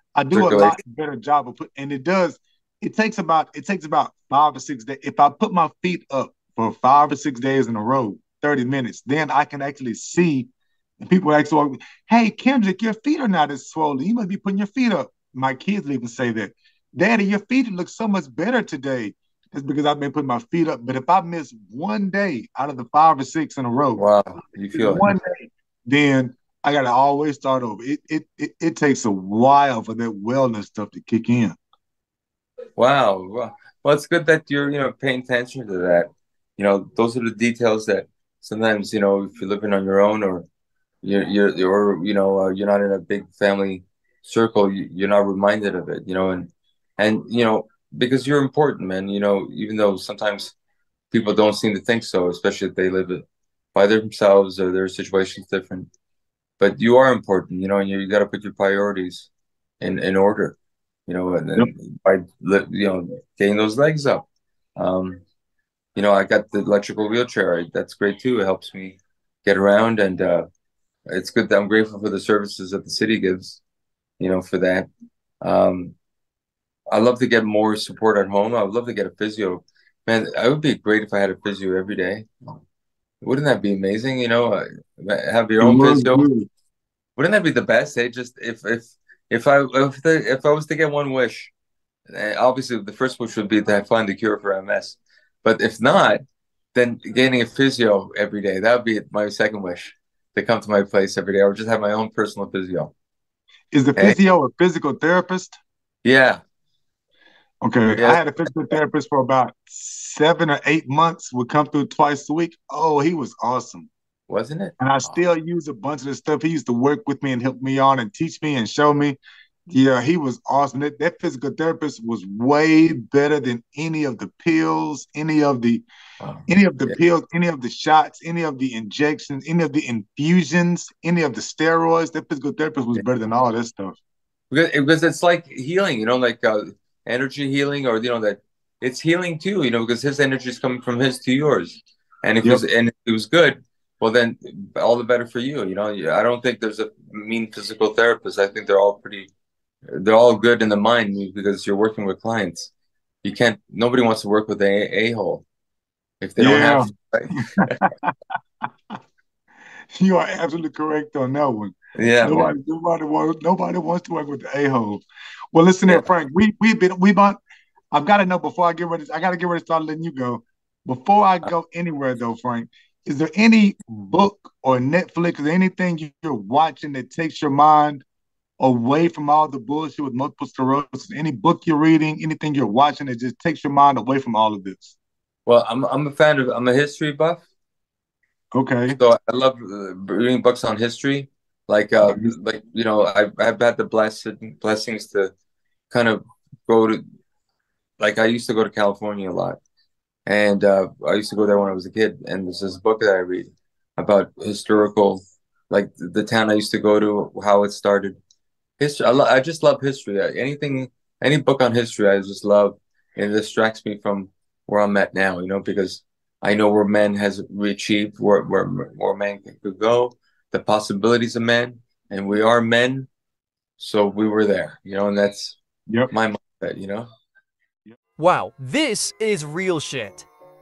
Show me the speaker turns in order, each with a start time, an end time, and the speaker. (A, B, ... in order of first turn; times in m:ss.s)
0:00.2-0:10.5 A
0:00.3-0:00.8 B
0:11.0-0:24.0 A
0:24.0-0:25.1 B
0:24.7-0:31.6 A
0:32.8-0:40.5 B
0:41.0-0:50.5 B
0:51.1-0:53.2 B
0:53.8-0:55.9 B
0:56.6-0:59.3 B
0:59.8-1:00.6 B
1:01.1-1:05.2 B
1:06.0-1:10.5 B
1:11.1-1:13.6 B
1:14.2-1:14.9 B
1:15.4-1:15.9 B
1:16.9-1:22.6 B
1:23.2-1:26.3 B
1:25.6-1:26.5 A
1:27.2-1:31.5 B
1:32.1-1:36.2 B
1:36.7-1:42.9 B
1:43.7-1:45.6 A
1:46.0-1:46.4 B
1:47.6-1:53.9 A
1:47.9-1:48.8 B
1:54.3-1:55.2 B
1:54.8-1:59.2 A
1:59.7-2:05.8 A
2:06.2-2:07.0 B
2:06.5-2:14.0 A
2:14.5-2:29.3 B
2:29.9-2:32.7 B
2:33.2-2:35.4 B
2:36.2-2:37.8 B
2:36.4-2:36.9 A
2:37.6-2:38.1 A
2:40.0-2:45.0 A
2:42.0-2:42.5 B
2:45.5-2:47.4 A
2:47.9-2:58.0 A
2:58.6-3:05.0 A
3:05.5-3:07.4 B
3:08.5-3:09.0 A
3:09.0-3:15.3 B
3:12.1-3:12.3 A
3:15.9-3:17.0 B
3:18.0-3:19.6 B
3:20.3-3:28.2 B
3:28.8-3:43.1 B
3:43.8-3:45.6 B
3:46.1-3:47.1 B
3:48.2-3:50.3 C